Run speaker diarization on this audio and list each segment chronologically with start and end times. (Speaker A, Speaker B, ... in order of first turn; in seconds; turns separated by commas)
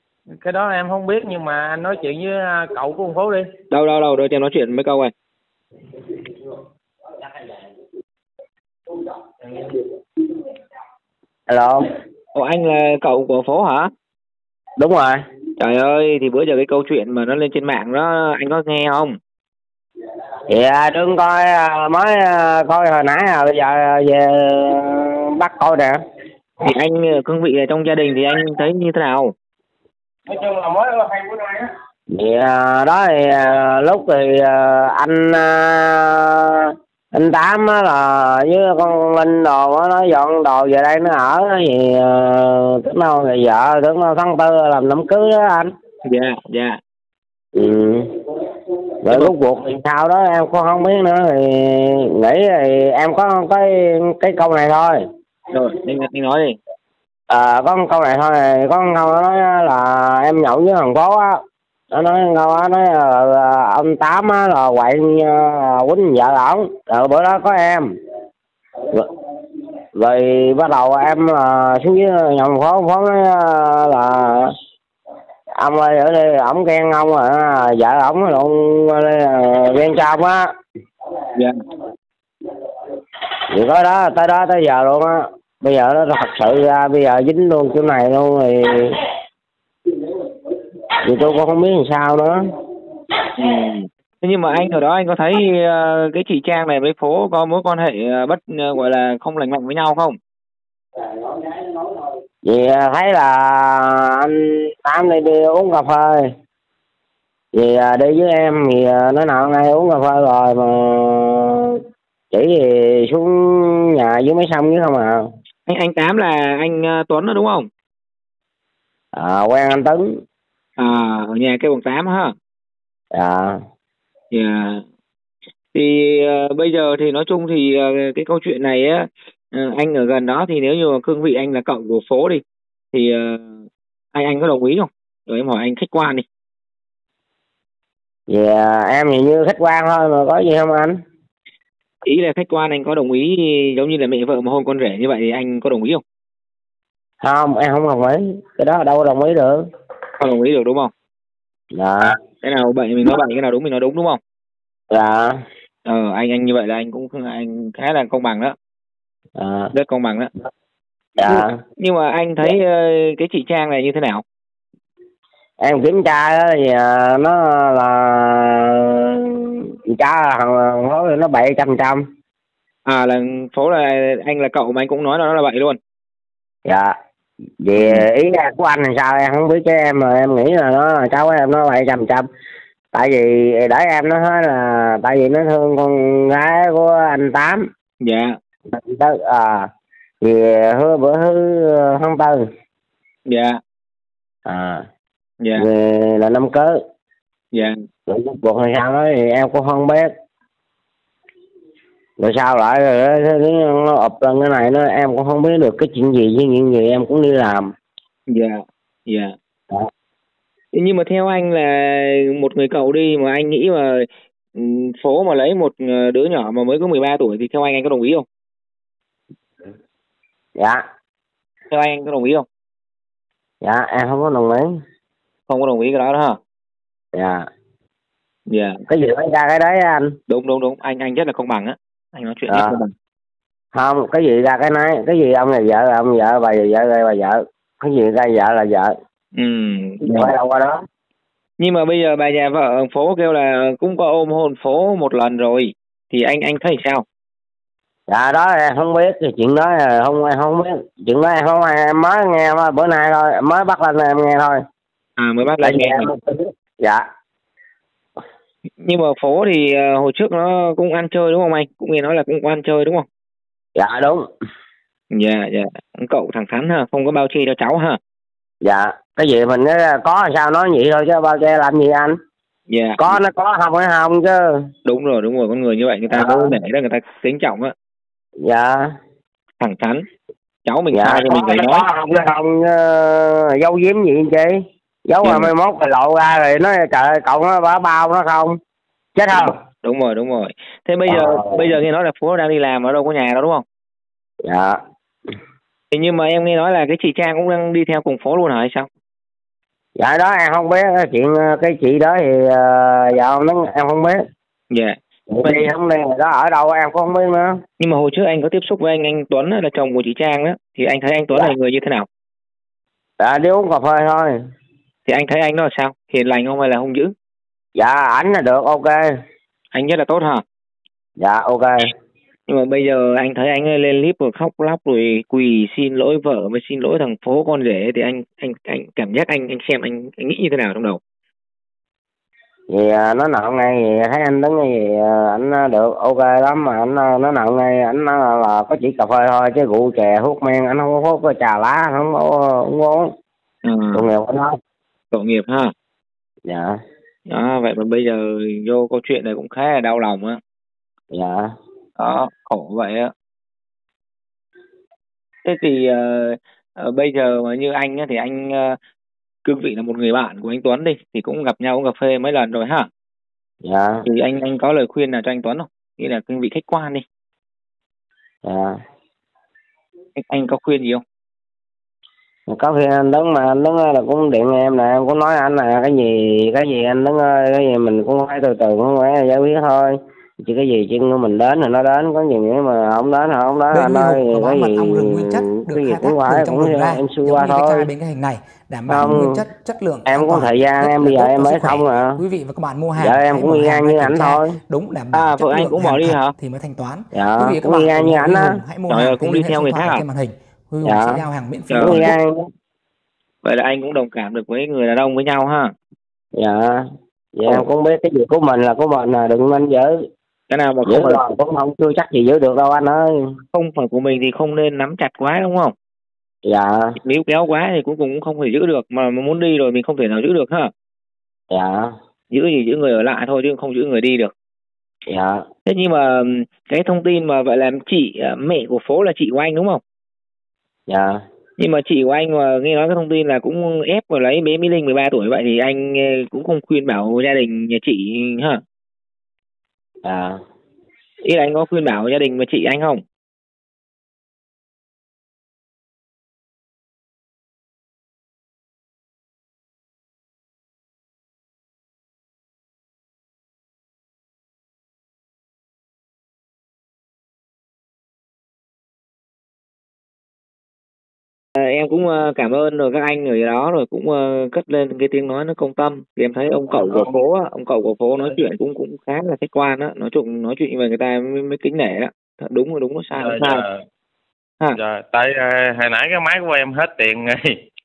Speaker A: 0.3-3.5, Speaker B: 3.7-5.1, Speaker C: 11.5-11.9, Speaker B: 12.3-13.9, Speaker C: 14.8-15.2, Speaker B: 15.6-19.2, Speaker C: 20.5-26.0, Speaker B: 26.6-29.3, Speaker A: 30.3-31.7, Speaker C: 32.1-45.7, Speaker B: 46.0-46.8, Speaker C: 47.5-48.1, Speaker C: 49.0-55.0, Speaker B: 49.1-49.3, Speaker B: 55.5-56.6, Speaker C: 57.3-67.9, Speaker C: 70.0-74.5, Speaker C: 75.6-80.5, Speaker C: 83.5-89.0, Speaker C: 91.0-92.4, Speaker B: 93.3-100.2, Speaker C: 102.5-106.3, Speaker C: 107.5-111.8, Speaker C: 112.3-115.3, Speaker B: 115.7-117.7, Speaker C: 119.1-120.2, Speaker B: 120.8-122.3, Speaker C: 123.1-123.6, Speaker B: 124.3-124.8, Speaker B: 125.7-136.2, Speaker C: 138.3-141.0, Speaker B: 142.0-146.0, Speaker C: 147.2-149.6, Speaker B: 150.2-150.9, Speaker C: 151.7-152.2, Speaker B: 152.4-154.2, Speaker C: 154.9-155.4, Speaker B: 155.8-158.6, Speaker C: 159.4-159.7, Speaker B: 159.7-160.3, Speaker C: 161.2-161.5, Speaker B: 161.2-164.2, Speaker C: 165.6-172.0, Speaker B: 172.9-175.8, Speaker C: 176.7-176.9, Speaker C: 177.6-182.2, Speaker B: 177.8-178.1, Speaker C: 182.9-187.7, Speaker B: 188.0-188.4, Speaker C: 188.7-189.7, Speaker C: 190.2-192.4, Speaker B: 193.3-193.6, Speaker C: 194.4-194.8, Speaker B: 195.4-195.7, Speaker C: 195.6-196.8, Speaker C: 198.1-200.1, Speaker C: 202.2-207.7, Speaker B: 208.3-209.3, Speaker B: 210.7-218.2, Speaker C: 220.6-220.8, Speaker B: 221.7-222.4, Speaker C: 223.6-224.7, Speaker B: 225.5-226.4, Speaker C: 227.1-227.5, Speaker B: 228.5-228.8, Speaker C: 228.9-230.2, Speaker B: 230.3-232.9, Speaker C: 232.5-232.7, Speaker C: 233.7-238.9, Speaker B: 239.3-240.3, Speaker C: 240.0-240.8, Speaker B: 241.6-247.0, Speaker C: 248.1-254.6, Speaker B: 255.2-256.1, Speaker C: 255.6-257.0, Speaker B: 258.8-263.1, Speaker C: 263.8-264.3, Speaker B: 265.1-268.0, Speaker C: 268.6-272.2, Speaker B: 272.7-273.2, Speaker C: 273.0-274.7, Speaker B: 274.8-277.7, Speaker C: 276.1-276.6, Speaker C: 278.4-278.9, Speaker B: 279.6-280.1, Speaker B: 280.6-281.9, Speaker C: 280.9-288.6, Speaker B: 285.2-285.5, Speaker C: 289.1-289.6, Speaker B: 289.3-293.6, Speaker C: 291.1-291.7, Speaker C: 294.4-294.8, Speaker B: 295.9-298.9, Speaker C: 300.0-304.2, Speaker B: 304.7-305.7, Speaker C: 305.3-307.6, Speaker B: 307.8-312.1, Speaker C: 313.2-314.3, Speaker B: 315.1-317.1, Speaker C: 317.8-319.1, Speaker B: 319.7-320.4, Speaker C: 321.2-321.9, Speaker B: 322.5-331.0, Speaker C: 332.7-343.1, Speaker B: 343.6-344.1, Speaker C: 343.9-344.5, Speaker B: 345.1-345.7, Speaker C: 346.5-346.8, Speaker B: 347.3-350.4, Speaker C: 351.1-351.5, Speaker B: 352.0-353.1, Speaker B: 355.4-358.8, Speaker B: 359.4-362.9, Speaker C: 363.6-364.1, Speaker B: 364.1-367.0, Speaker C: 368.4-368.8, Speaker B: 370.1-371.0, Speaker C: 372.5-387.9, Speaker D: 383.7-402.1, Speaker C: 388.9-389.5, Speaker C: 390.1-392.2, Speaker C: 393.0-394.6, Speaker B: 395.1-396.3, Speaker C: 397.1-398.6, Speaker B: 398.9-400.0, Speaker C: 400.8-402.4, Speaker B: 401.7-402.1, Speaker B: 403.4-405.7, Speaker C: 406.4-410.0, Speaker B: 410.5-411.2, Speaker C: 410.9-413.4, Speaker B: 413.5-415.7, Speaker C: 416.4-416.9, Speaker B: 417.0-420.7, Speaker C: 421.5-421.9, Speaker B: 422.3-424.3, Speaker C: 425.1-425.4, Speaker B: 425.6-429.8, Speaker C: 430.9-431.2, Speaker B: 431.6-438.6, Speaker C: 440.0-440.4, Speaker B: 441.2-443.0, Speaker B: 461.6-473.6, Speaker A: 466.7-467.2, Speaker A: 473.1-473.8, Speaker A: 474.7-477.5